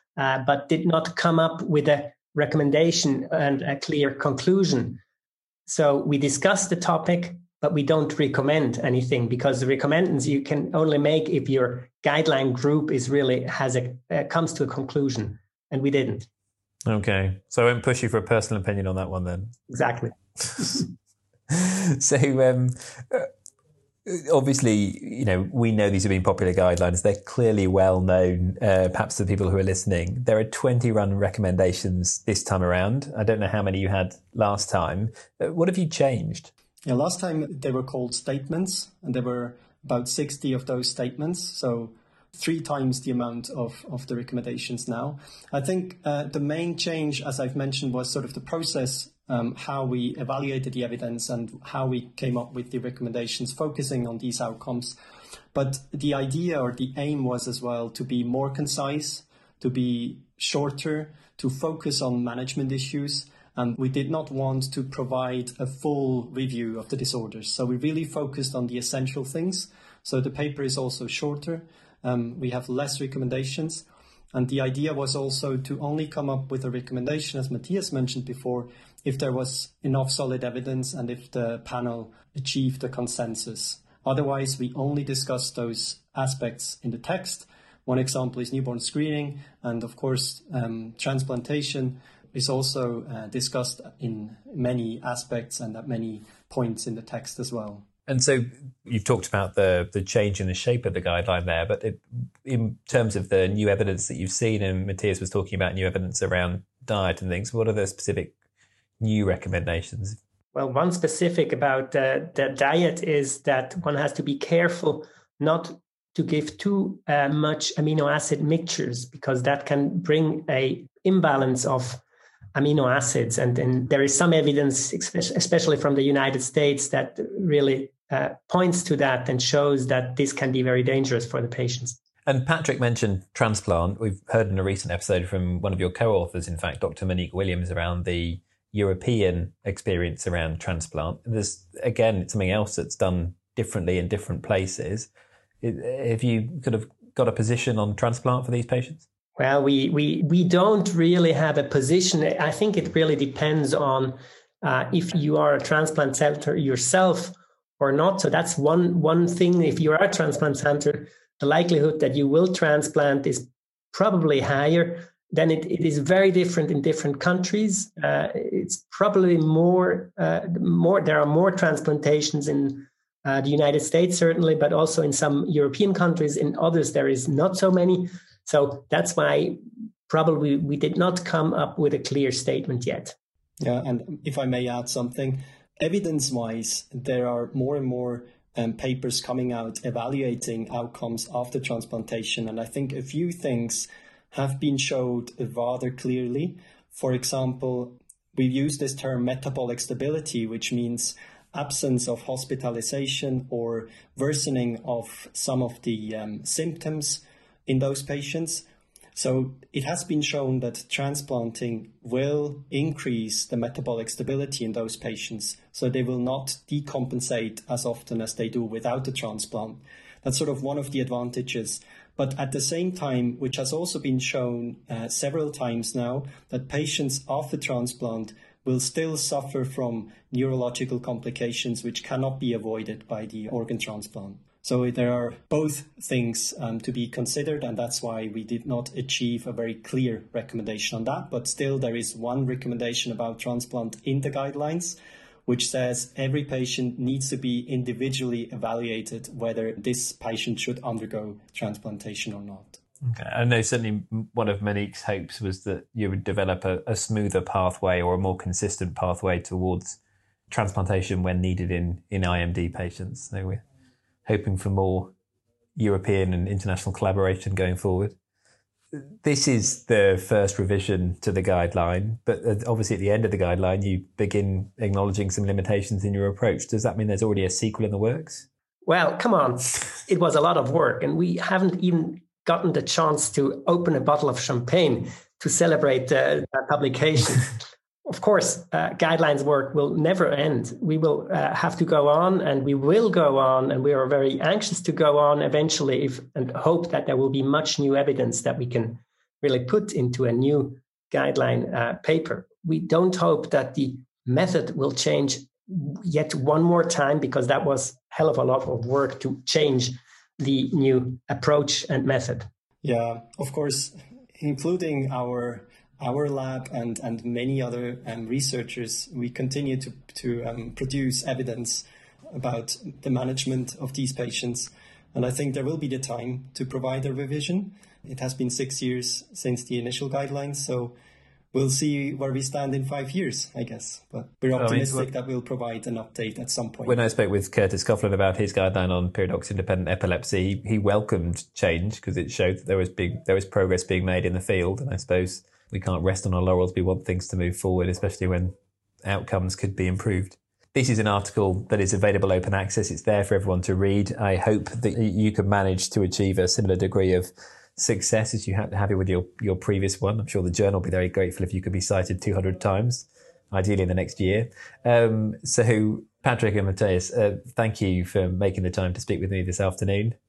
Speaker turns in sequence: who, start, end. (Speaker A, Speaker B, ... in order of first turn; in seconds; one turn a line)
Speaker A: 0.2-5.0
Speaker A: 5.7-16.3
Speaker B: 16.9-19.5
Speaker A: 19.7-20.9
Speaker B: 21.5-23.3
Speaker B: 24.1-36.5
Speaker C: 36.8-55.0
Speaker C: 55.5-97.9
Speaker B: 98.1-108.3
Speaker B: 109.0-110.2
Speaker A: 110.5-122.0
Speaker A: 122.5-132.0
Speaker B: 132.2-145.1
Speaker B: 145.6-149.0
Speaker A: 149.4-183.2
Speaker C: 183.6-252.8
Speaker B: 253.0-260.0
Speaker B: 260.5-263.6
Speaker B: 264.2-265.1
Speaker B: 265.8-268.1
Speaker B: 269.2-278.4
Speaker A: 278.8-312.5
Speaker C: 312.8-330.9
Speaker C: 331.5-337.0
Speaker B: 334.6-335.1
Speaker B: 336.9-370.2